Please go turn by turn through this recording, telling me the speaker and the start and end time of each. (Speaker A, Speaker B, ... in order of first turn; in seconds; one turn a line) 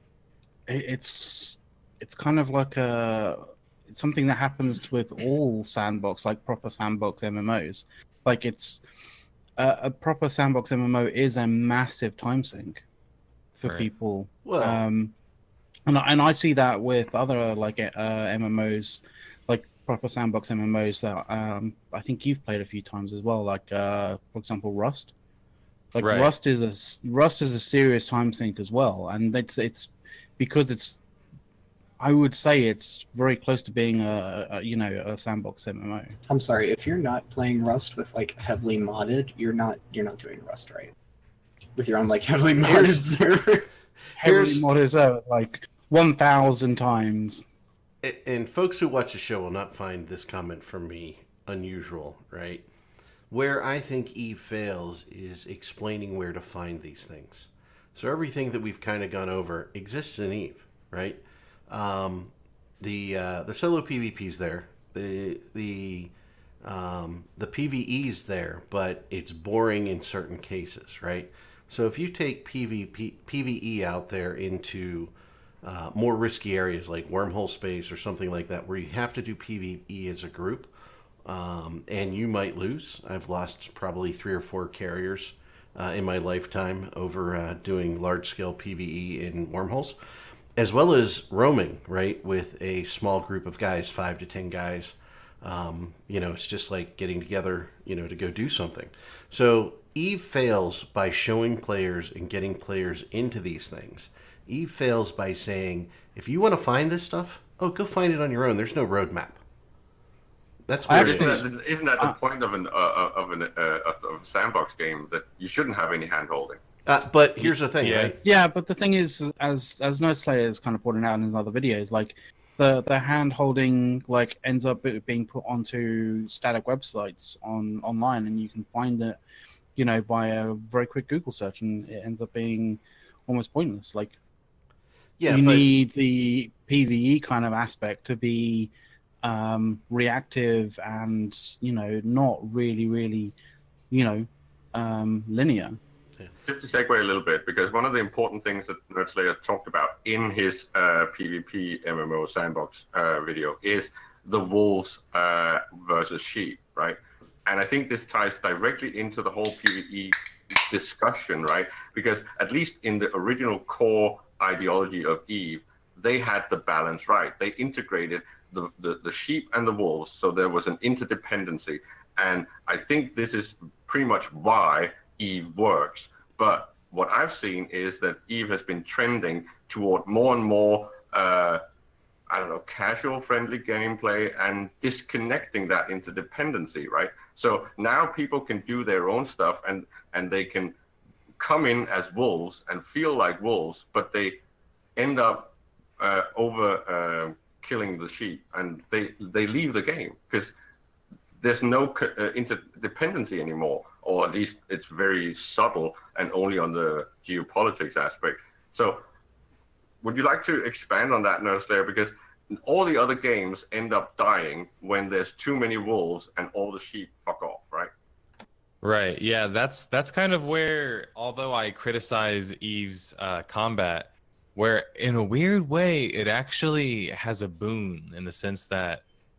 Speaker A: 0.7-8.8
Speaker A: 9.6-12.8
Speaker A: 13.6-15.1
Speaker B: 13.6-13.9
Speaker C: 14.4-14.8
Speaker A: 15.9-25.1
Speaker A: 25.9-31.0
Speaker B: 26.0-26.3
Speaker A: 32.0-36.2
Speaker D: 36.3-40.9
Speaker D: 41.8-43.6
Speaker C: 42.6-44.7
Speaker A: 44.2-47.5
Speaker C: 48.0-52.7
Speaker C: 53.3-75.1
Speaker C: 75.6-80.7
Speaker C: 81.2-90.0
Speaker C: 90.6-109.4
Speaker C: 110.7-111.4
Speaker A: 110.9-111.5
Speaker E: 110.9-116.6
Speaker C: 116.9-118.2
Speaker B: 117.5-118.2
Speaker A: 118.2-129.2
Speaker A: 129.8-134.2
Speaker C: 135.2-135.7
Speaker A: 135.3-138.7
Speaker A: 139.2-143.3
Speaker A: 143.9-145.8
Speaker E: 146.5-160.2
Speaker E: 160.7-181.6
Speaker E: 182.3-190.8
Speaker E: 191.4-194.4
Speaker E: 195.0-200.6
Speaker E: 201.4-209.0
Speaker E: 210.0-217.9
Speaker B: 218.8-229.0